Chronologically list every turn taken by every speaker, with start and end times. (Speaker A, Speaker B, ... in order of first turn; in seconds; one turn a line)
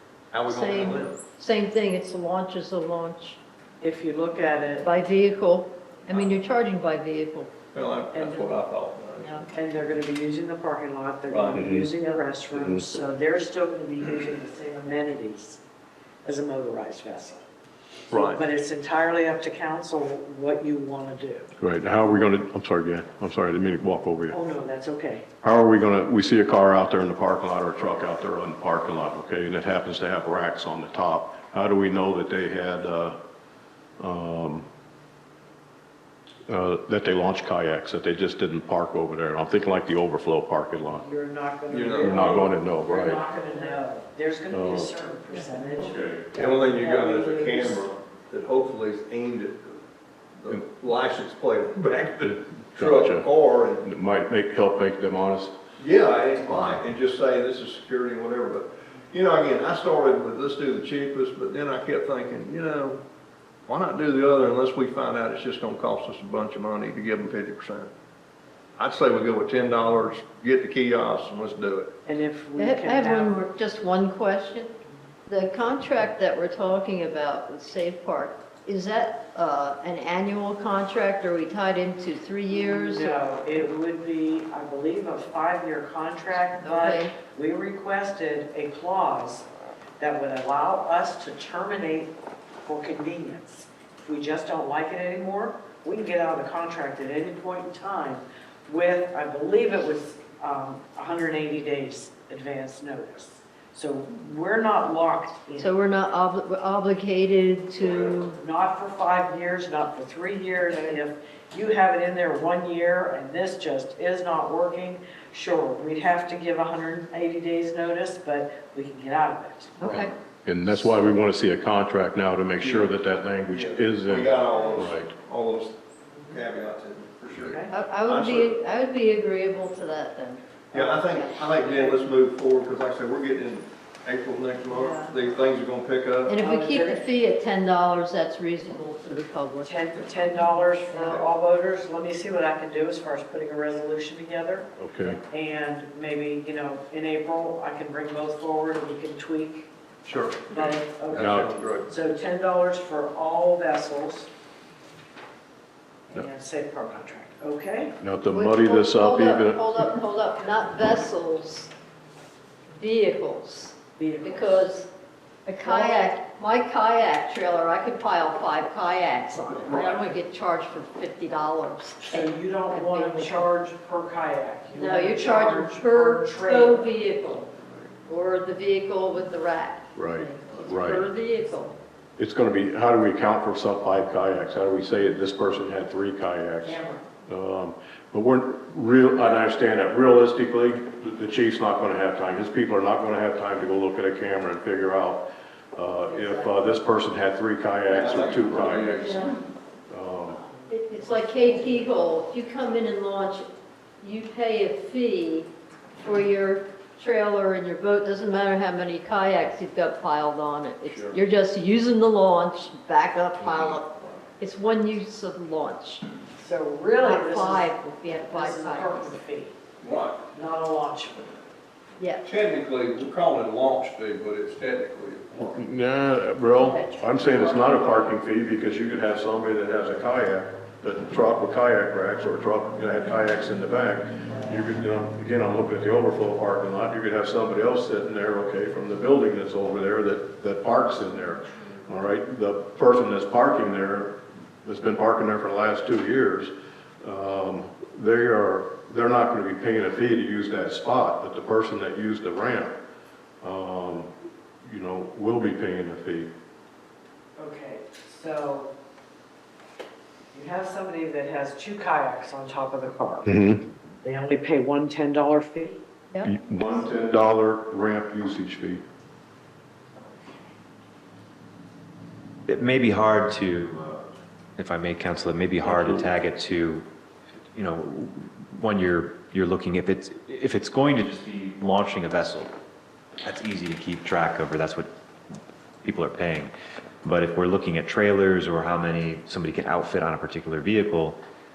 Speaker A: 0.3-1.2
Speaker B: 0.5-3.4
Speaker C: 3.8-4.9
Speaker B: 4.8-7.5
Speaker A: 6.1-6.4
Speaker A: 7.7-9.5
Speaker C: 8.1-8.5
Speaker C: 9.5-15.6
Speaker A: 11.3-11.6
Speaker D: 11.5-11.9
Speaker D: 12.6-12.8
Speaker C: 16.2-17.4
Speaker A: 18.1-18.4
Speaker C: 18.1-21.5
Speaker D: 21.6-24.3
Speaker C: 24.3-25.2
Speaker D: 25.4-33.2
Speaker D: 34.0-34.7
Speaker D: 36.5-41.0
Speaker C: 40.9-47.8
Speaker A: 41.7-42.5
Speaker D: 42.0-43.2
Speaker D: 44.5-44.9
Speaker D: 45.8-46.2
Speaker A: 46.3-49.8
Speaker A: 50.4-53.9
Speaker D: 52.3-53.3
Speaker D: 53.8-55.5
Speaker A: 55.8-63.0
Speaker A: 63.7-67.9
Speaker A: 68.8-71.9
Speaker C: 72.0-73.4
Speaker B: 72.6-74.7
Speaker B: 75.3-83.2
Speaker C: 82.5-89.5
Speaker B: 86.6-87.1
Speaker C: 90.0-105.7
Speaker B: 105.6-108.4
Speaker A: 107.8-108.1
Speaker C: 108.2-120.0
Speaker B: 110.7-111.0
Speaker B: 119.8-120.1
Speaker D: 119.8-125.1
Speaker A: 122.6-128.6
Speaker B: 127.7-131.9
Speaker A: 130.7-136.3
Speaker B: 134.7-135.1
Speaker B: 136.2-140.4
Speaker C: 136.4-137.0
Speaker C: 139.6-149.7
Speaker A: 140.9-141.3
Speaker D: 144.8-145.2
Speaker A: 150.0-151.9
Speaker C: 150.5-154.3
Speaker D: 151.2-151.5
Speaker C: 156.1-157.9
Speaker D: 158.0-159.9
Speaker B: 158.3-161.7
Speaker B: 162.8-164.9
Speaker C: 164.0-164.7
Speaker B: 165.4-173.4
Speaker C: 165.6-166.1
Speaker A: 169.7-169.9
Speaker C: 172.1-176.9
Speaker B: 174.7-177.5
Speaker B: 178.1-181.8
Speaker D: 179.9-181.1
Speaker D: 182.2-199.2
Speaker C: 186.6-187.0
Speaker B: 196.1-196.6
Speaker A: 197.9-199.3
Speaker B: 198.9-199.3
Speaker D: 199.9-200.4
Speaker C: 200.3-201.9
Speaker B: 200.7-203.5
Speaker B: 204.0-216.0
Speaker A: 210.9-211.2
Speaker A: 213.4-214.2
Speaker C: 216.4-217.7
Speaker B: 217.0-219.2
Speaker C: 218.3-219.5
Speaker A: 219.8-220.3
Speaker C: 220.3-221.4
Speaker B: 222.0-222.2
Speaker A: 222.2-225.6
Speaker D: 225.5-252.8
Speaker D: 253.4-254.1
Speaker D: 254.6-256.3
Speaker C: 257.4-258.7
Speaker C: 260.3-263.3
Speaker D: 263.2-263.7
Speaker C: 264.0-265.8
Speaker D: 266.2-268.8
Speaker E: 272.4-274.0
Speaker E: 274.6-276.9
Speaker D: 275.6-276.1
Speaker E: 277.5-282.5
Speaker E: 283.2-284.9
Speaker E: 285.8-286.5
Speaker E: 287.0-291.2